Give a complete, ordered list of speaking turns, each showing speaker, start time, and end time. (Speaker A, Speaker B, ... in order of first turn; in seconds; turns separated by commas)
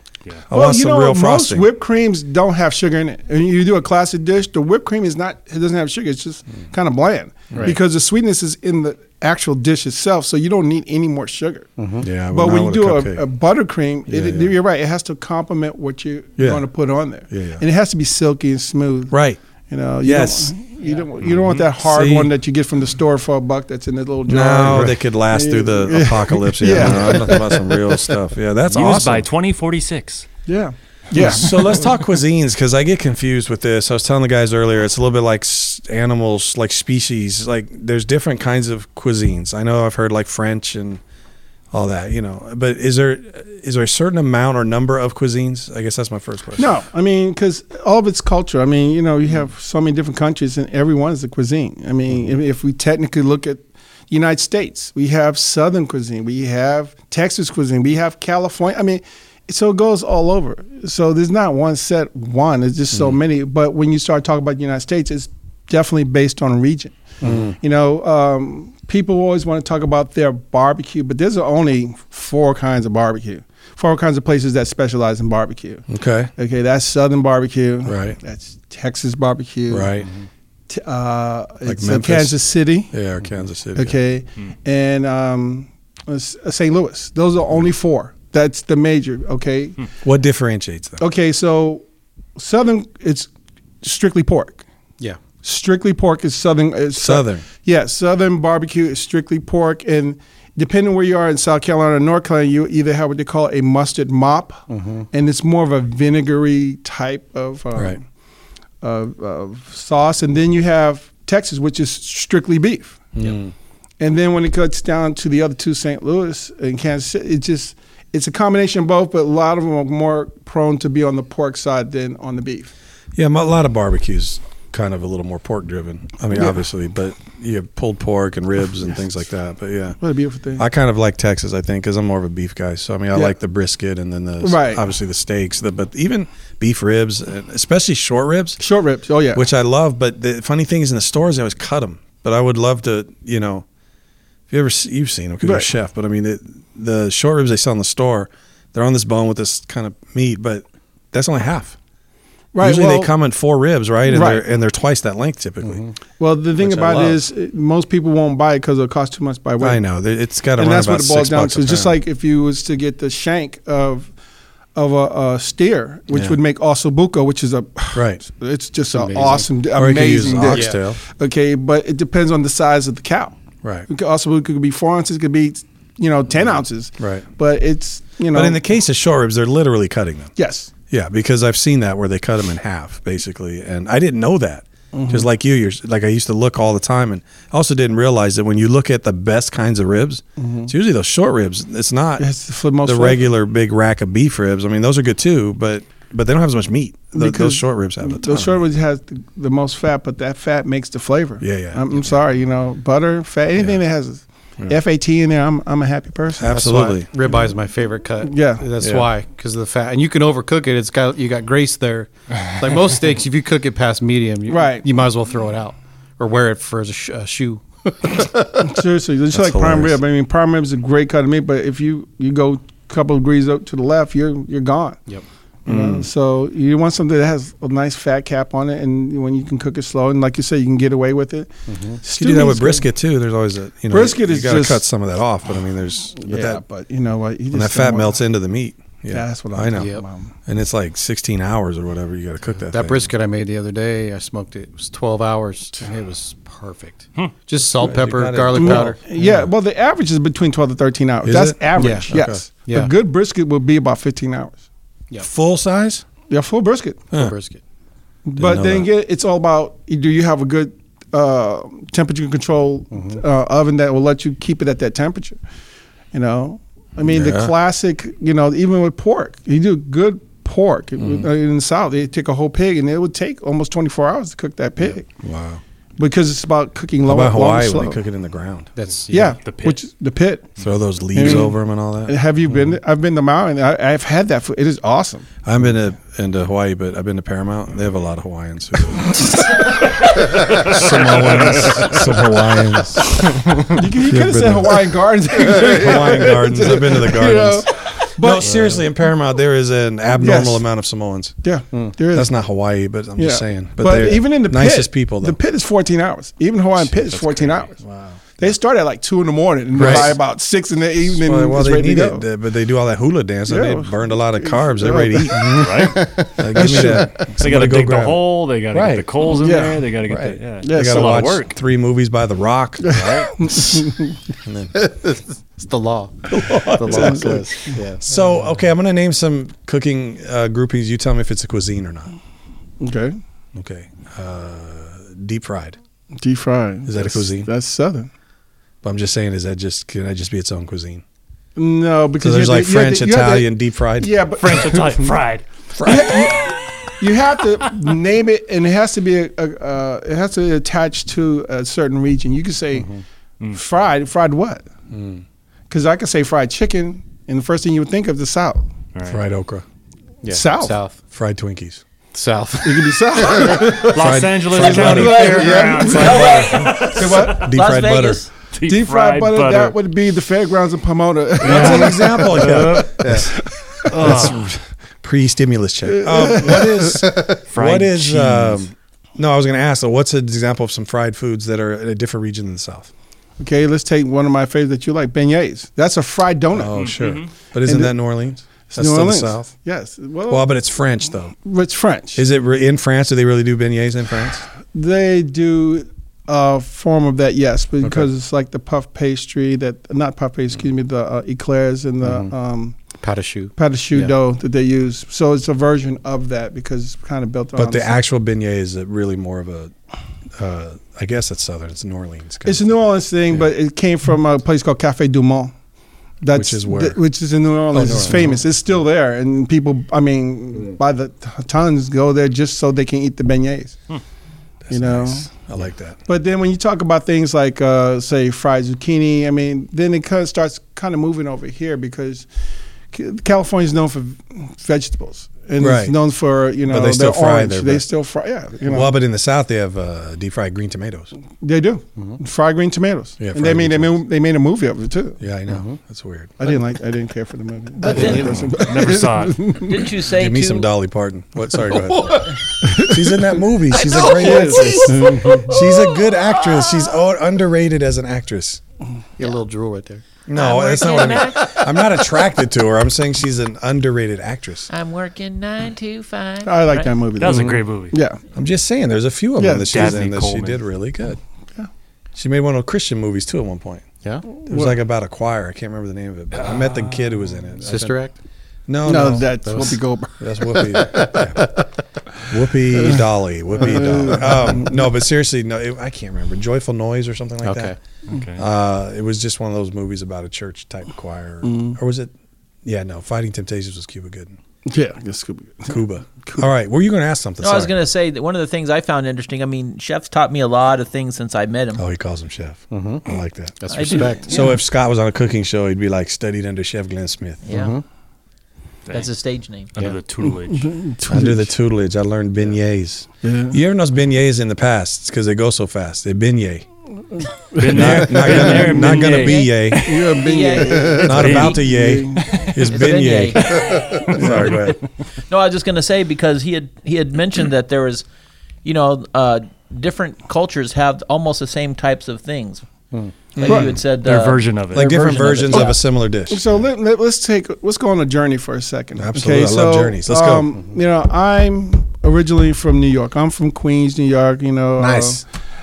Speaker A: 0.5-1.7, Speaker B: 0.5-11.7, Speaker C: 7.5-7.8, Speaker C: 11.8-12.1, Speaker A: 12.0-13.2, Speaker B: 12.3-19.1, Speaker A: 14.1-14.6, Speaker A: 16.4-16.6, Speaker A: 17.3-17.6, Speaker A: 19.1-19.4, Speaker B: 19.7-27.7, Speaker A: 20.0-20.5, Speaker D: 21.2-21.7, Speaker A: 21.8-22.3, Speaker A: 24.3-29.3, Speaker C: 26.9-27.4, Speaker D: 28.7-30.3, Speaker B: 30.5-31.8, Speaker A: 31.1-41.0, Speaker A: 41.7-46.7, Speaker B: 46.6-79.9, Speaker C: 67.2-67.5, Speaker A: 67.2-67.6, Speaker A: 75.9-76.3, Speaker A: 77.8-78.2, Speaker A: 79.7-80.1, Speaker B: 80.7-83.0, Speaker A: 81.7-82.4, Speaker A: 82.9-84.0, Speaker B: 83.8-89.8, Speaker A: 90.0-91.0, Speaker B: 91.0-91.8, Speaker B: 92.4-93.3, Speaker B: 93.8-94.7, Speaker B: 95.4-108.0, Speaker A: 97.0-97.4, Speaker C: 104.7-105.1, Speaker B: 108.8-113.1, Speaker A: 113.2-113.5, Speaker B: 114.0-122.7, Speaker A: 123.2-130.0, Speaker B: 126.3-126.6, Speaker B: 130.0-130.7, Speaker A: 130.6-138.6, Speaker B: 134.4-134.8, Speaker B: 138.6-139.4, Speaker A: 139.3-143.7, Speaker A: 144.5-151.8, Speaker B: 145.4-145.7, Speaker B: 152.5-153.1, Speaker A: 152.6-155.8, Speaker B: 154.1-154.4, Speaker C: 155.6-155.9, Speaker B: 156.2-159.8, Speaker A: 156.6-157.2, Speaker A: 159.6-162.0, Speaker B: 160.6-164.1, Speaker B: 164.8-173.4, Speaker A: 166.1-166.4, Speaker A: 167.9-168.2, Speaker C: 168.9-169.5, Speaker A: 169.7-171.0, Speaker C: 170.5-170.8, Speaker A: 173.6-173.9, Speaker B: 173.9-178.6, Speaker A: 177.0-177.3, Speaker A: 178.3-180.3, Speaker B: 180.4-180.7, Speaker A: 180.9-192.3, Speaker B: 184.9-185.3, Speaker B: 190.4-190.7, Speaker B: 192.2-193.2, Speaker A: 192.8-198.5, Speaker B: 197.1-206.9, Speaker A: 201.4-202.2, Speaker A: 206.4-207.1, Speaker C: 206.5-218.8, Speaker B: 208.2-208.7, Speaker A: 208.8-209.1, Speaker B: 214.5-214.8, Speaker B: 218.6-225.1, Speaker A: 219.3-220.0, Speaker A: 225.7-226.1, Speaker B: 225.7-231.5, Speaker C: 231.7-232.0, Speaker B: 232.0-232.9, Speaker A: 232.1-236.6, Speaker B: 233.9-234.8, Speaker B: 236.2-238.2, Speaker A: 237.5-239.9, Speaker B: 239.1-240.3, Speaker C: 239.8-240.0, Speaker A: 240.5-243.1, Speaker C: 242.7-249.0, Speaker A: 247.7-249.5, Speaker B: 248.5-254.6, Speaker A: 251.2-252.4, Speaker C: 251.8-252.9, Speaker A: 255.2-256.1, Speaker B: 256.3-257.0, Speaker C: 257.1-257.6, Speaker B: 258.2-265.4, Speaker A: 258.4-258.9, Speaker C: 262.9-263.2, Speaker B: 266.1-275.1, Speaker A: 267.1-267.5, Speaker A: 271.0-271.3, Speaker A: 275.2-275.6, Speaker B: 276.0-278.0, Speaker A: 277.1-278.7, Speaker C: 278.8-279.4, Speaker B: 279.1-280.5, Speaker D: 279.4-279.8, Speaker A: 280.6-282.2, Speaker B: 281.1-285.3, Speaker A: 285.4-289.7, Speaker A: 290.4-293.4, Speaker D: 290.7-291.9, Speaker C: 293.5-293.7, Speaker B: 293.7-298.8, Speaker A: 294.1-294.9, Speaker A: 295.5-301.4, Speaker B: 300.2-300.6, Speaker B: 301.4-302.3, Speaker A: 302.1-305.4, Speaker B: 303.2-307.8, Speaker C: 303.9-304.1, Speaker D: 306.8-307.7, Speaker A: 307.8-308.2, Speaker B: 308.4-312.2, Speaker A: 309.7-310.2, Speaker C: 309.8-310.1, Speaker A: 311.0-315.7, Speaker B: 313.5-315.6, Speaker C: 315.3-317.1, Speaker D: 315.6-316.1, Speaker A: 316.4-319.1, Speaker B: 316.5-317.2, Speaker D: 316.6-321.6, Speaker B: 319.3-319.9, Speaker A: 320.0-323.5, Speaker B: 320.6-321.3, Speaker B: 322.9-324.2, Speaker D: 322.9-323.3, Speaker A: 324.4-324.7, Speaker C: 324.8-328.1, Speaker A: 326.3-332.1, Speaker B: 326.9-327.8, Speaker B: 332.8-333.2, Speaker A: 333.6-335.8, Speaker B: 336.2-338.1, Speaker A: 336.9-337.5, Speaker A: 338.8-341.0, Speaker B: 341.6-345.2, Speaker A: 342.2-344.1, Speaker D: 344.4-346.2, Speaker A: 345.7-346.2, Speaker B: 345.8-352.9, Speaker C: 352.8-353.0, Speaker B: 353.5-354.6, Speaker A: 354.9-355.2, Speaker B: 355.7-358.7, Speaker D: 358.9-359.2, Speaker A: 359.1-359.6, Speaker C: 360.2-361.0, Speaker B: 360.3-360.8, Speaker A: 361.1-361.8, Speaker C: 362.1-363.9, Speaker B: 362.6-366.1, Speaker D: 363.9-367.5, Speaker A: 363.9-368.2, Speaker E: 364.9-368.3, Speaker B: 366.9-367.5, Speaker D: 368.5-369.8, Speaker B: 368.7-372.9, Speaker A: 371.4-373.3, Speaker D: 371.4-373.0, Speaker C: 373.0-373.3, Speaker B: 373.4-374.3, Speaker A: 373.9-382.9, Speaker D: 373.9-374.5, Speaker B: 375.9-377.0, Speaker C: 376.9-377.4, Speaker D: 377.5-378.6, Speaker B: 383.4-386.9, Speaker A: 386.5-389.5, Speaker D: 386.7-387.3, Speaker B: 387.6-387.9, Speaker B: 388.7-390.4, Speaker A: 390.3-391.4, Speaker B: 391.4-392.2, Speaker A: 392.1-394.5, Speaker B: 394.7-402.8, Speaker C: 402.0-402.3, Speaker C: 403.0-404.1, Speaker B: 403.6-408.0, Speaker A: 407.6-409.7, Speaker A: 410.4-412.6, Speaker B: 412.4-415.5, Speaker B: 416.2-423.8, Speaker A: 416.3-417.0, Speaker A: 417.7-418.4, Speaker C: 417.9-418.1, Speaker A: 424.7-426.0, Speaker B: 424.7-425.3, Speaker B: 426.1-432.3, Speaker B: 432.9-438.9, Speaker A: 435.6-436.0, Speaker A: 436.7-437.9, Speaker A: 438.6-441.1, Speaker B: 441.4-445.2, Speaker A: 443.2-444.0, Speaker A: 445.2-446.4, Speaker C: 445.5-445.8, Speaker B: 446.4-449.9, Speaker E: 447.8-448.4, Speaker D: 447.9-449.6, Speaker C: 447.9-448.4, Speaker A: 448.0-448.5, Speaker E: 449.6-450.7, Speaker A: 450.1-458.6, Speaker C: 451.7-452.3, Speaker B: 452.6-453.3, Speaker E: 454.0-454.9, Speaker B: 454.0-455.6, Speaker C: 459.2-460.1, Speaker A: 460.3-464.7, Speaker E: 460.3-461.6, Speaker C: 461.4-461.6, Speaker E: 464.7-466.9, Speaker B: 466.4-468.2, Speaker D: 467.2-468.0, Speaker C: 467.2-467.6, Speaker A: 468.3-471.2, Speaker B: 469.4-470.0, Speaker D: 469.7-470.6, Speaker A: 472.1-473.9, Speaker A: 474.5-478.0, Speaker C: 477.6-478.1, Speaker A: 478.7-479.4, Speaker B: 478.9-481.0, Speaker C: 479.4-479.8, Speaker A: 480.2-481.5, Speaker C: 480.7-481.6, Speaker A: 482.3-487.8, Speaker B: 483.6-484.9, Speaker C: 487.4-487.8, Speaker D: 488.1-488.4, Speaker A: 488.4-492.1, Speaker B: 491.4-491.8, Speaker A: 492.6-494.4, Speaker B: 494.7-496.5, Speaker A: 495.7-497.7, Speaker E: 497.4-501.8, Speaker A: 501.8-507.4, Speaker C: 502.7-503.1, Speaker C: 503.6-504.5, Speaker E: 503.7-504.6, Speaker E: 507.4-507.8, Speaker C: 507.5-507.8, Speaker E: 508.9-509.7, Speaker D: 509.7-510.7, Speaker B: 510.5-511.5, Speaker A: 511.1-516.7, Speaker B: 513.2-513.6, Speaker D: 517.5-520.1, Speaker B: 517.6-518.8, Speaker A: 517.7-520.0, Speaker E: 518.8-521.6, Speaker B: 519.7-522.5, Speaker D: 521.0-521.6, Speaker A: 521.0-523.5, Speaker D: 522.2-522.6, Speaker E: 522.5-524.8, Speaker D: 523.5-524.8, Speaker A: 524.1-524.8, Speaker E: 525.3-528.1, Speaker E: 528.6-532.6, Speaker A: 533.4-533.8, Speaker E: 533.4-535.7, Speaker D: 533.8-535.0, Speaker A: 534.7-536.5, Speaker B: 535.5-535.8, Speaker B: 536.3-545.2, Speaker A: 539.0-540.6, Speaker A: 544.8-545.2